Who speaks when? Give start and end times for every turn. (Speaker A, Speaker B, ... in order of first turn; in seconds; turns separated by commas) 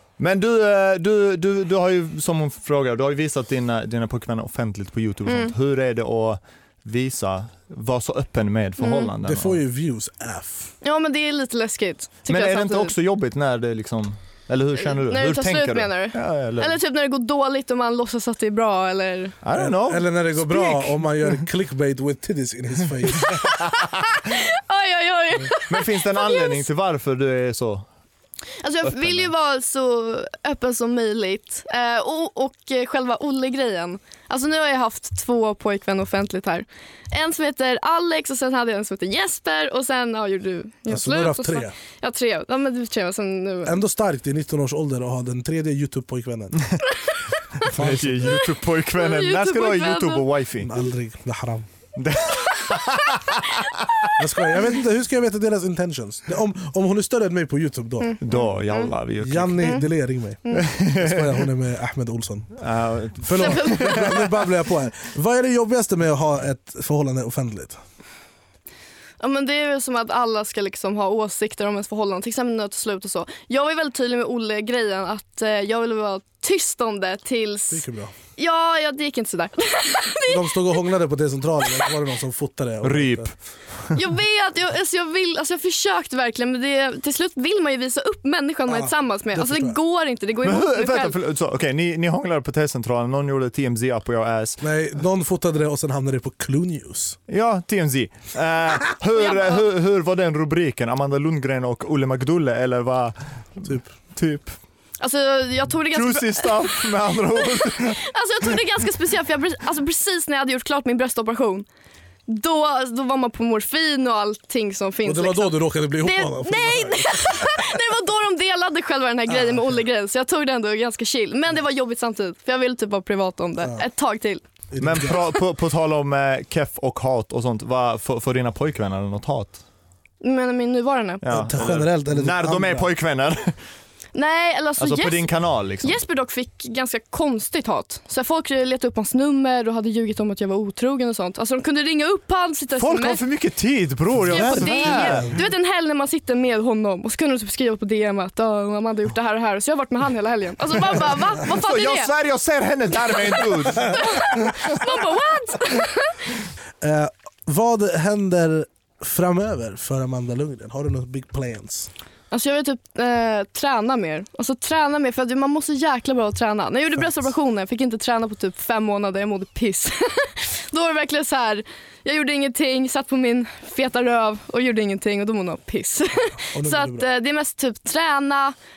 Speaker A: 0.2-9.6, Speaker B: 5.3-5.5, Speaker B: 8.8-9.1, Speaker C: 9.2-10.7, Speaker B: 10.8-12.9, Speaker A: 12.3-16.8, Speaker B: 14.8-19.3, Speaker A: 19.4-20.9, Speaker C: 19.5-23.4, Speaker B: 23.2-23.6, Speaker B: 24.1-26.6, Speaker A: 25.7-27.9, Speaker B: 28.6-43.7, Speaker A: 28.8-29.3, Speaker C: 40.9-41.7, Speaker C: 43.6-46.7, Speaker A: 47.6-50.7, Speaker C: 47.6-48.4, Speaker B: 49.0-50.2, Speaker C: 50.6-51.7, Speaker A: 52.0-53.3, Speaker C: 54.1-58.2, Speaker A: 58.2-59.7, Speaker C: 59.2-62.6, Speaker A: 60.6-61.4, Speaker A: 62.6-64.2, Speaker C: 63.2-67.8, Speaker B: 63.4-64.2, Speaker B: 69.2-77.8, Speaker C: 77.7-78.1, Speaker B: 78.3-80.8, Speaker C: 80.3-83.3, Speaker A: 82.8-84.0, Speaker B: 83.9-91.1, Speaker C: 88.7-89.8, Speaker A: 90.4-94.6, Speaker C: 94.6-97.2, Speaker A: 97.3-104.6, Speaker B: 99.1-99.6, Speaker C: 103.6-103.9, Speaker B: 105.0-111.7, Speaker A: 105.9-108.0, Speaker B: 112.3-124.4, Speaker C: 115.0-117.5, Speaker C: 119.3-119.8, Speaker C: 123.6-123.8, Speaker C: 124.7-125.2, Speaker A: 124.8-129.6, Speaker B: 130.2-131.2, Speaker A: 131.2-133.6, Speaker C: 131.3-132.9, Speaker B: 134.1-135.3, Speaker A: 134.8-136.0, Speaker B: 135.8-143.2, Speaker A: 142.8-145.4, Speaker C: 144.3-145.4, Speaker B: 144.3-152.1, Speaker A: 151.4-154.8, Speaker B: 153.3-156.2, Speaker C: 156.8-161.9, Speaker B: 162.3-178.5, Speaker C: 176.5-177.1